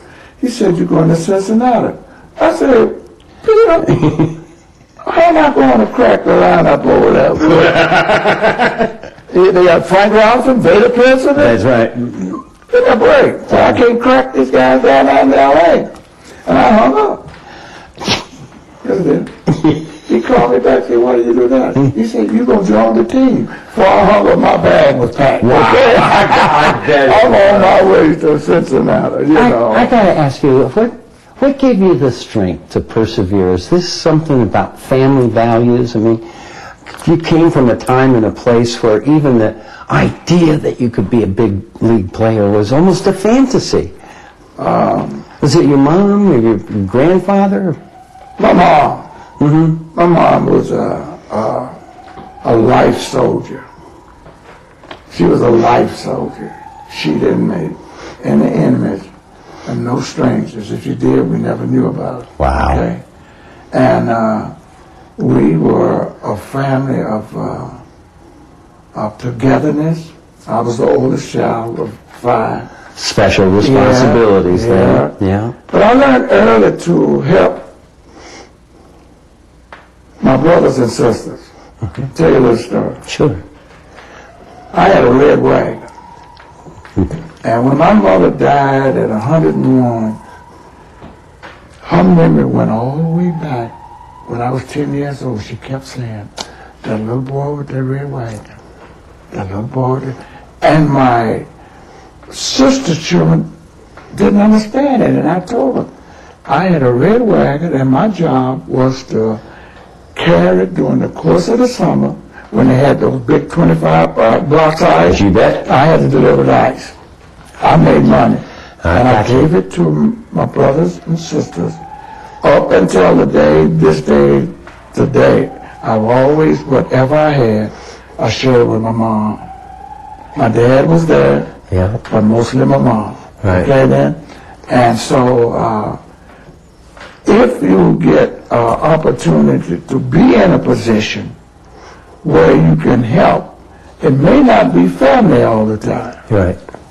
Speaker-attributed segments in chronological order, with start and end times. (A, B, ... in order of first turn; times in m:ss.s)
0:00.4-0:03.9 A
0:03.8-0:04.4 B
0:05.0-0:08.2 A
0:09.3-0:11.6 A
0:11.4-0:12.4 B
0:12.7-0:15.9 A
0:13.5-0:13.8 B
0:16.4-0:17.2 A
0:18.8-0:29.9 A
0:25.4-0:27.9 B
0:29.3-0:36.2 B
0:36.9-0:43.9 B
0:44.6-0:45.2 A
0:45.4-0:47.8 B
0:48.4-0:49.0 A
0:49.4-0:49.8 B
0:49.9-0:51.8 A
0:52.4-0:53.6 A
0:55.1-0:59.1 A
0:59.6-1:03.0 A
1:02.4-1:02.8 B
1:03.7-1:04.5 A
1:05.2-1:07.8 A
1:08.9-1:12.7 A
1:13.0-1:15.5 B
1:13.6-1:17.7 A
1:20.2-1:21.5 A
1:22.0-1:23.0 A
1:23.1-1:23.4 B
1:24.7-1:25.8 A
1:27.4-1:30.2 A
1:31.8-1:33.7 A
1:34.3-1:38.4 A
1:39.3-1:41.5 A
1:42.3-1:43.5 A
1:44.1-1:45.9 A
1:46.5-1:49.4 A
1:50.1-1:57.0 A
1:55.0-1:55.7 B
1:57.6-2:01.8 A
1:58.8-1:59.5 B
2:02.4-2:09.4 A
2:10.4-2:11.5 A
2:11.7-2:12.0 B
2:12.1-2:16.0 A
2:13.4-2:13.7 B
2:17.2-2:21.3 A
2:22.2-2:26.2 A
2:26.3-2:26.6 B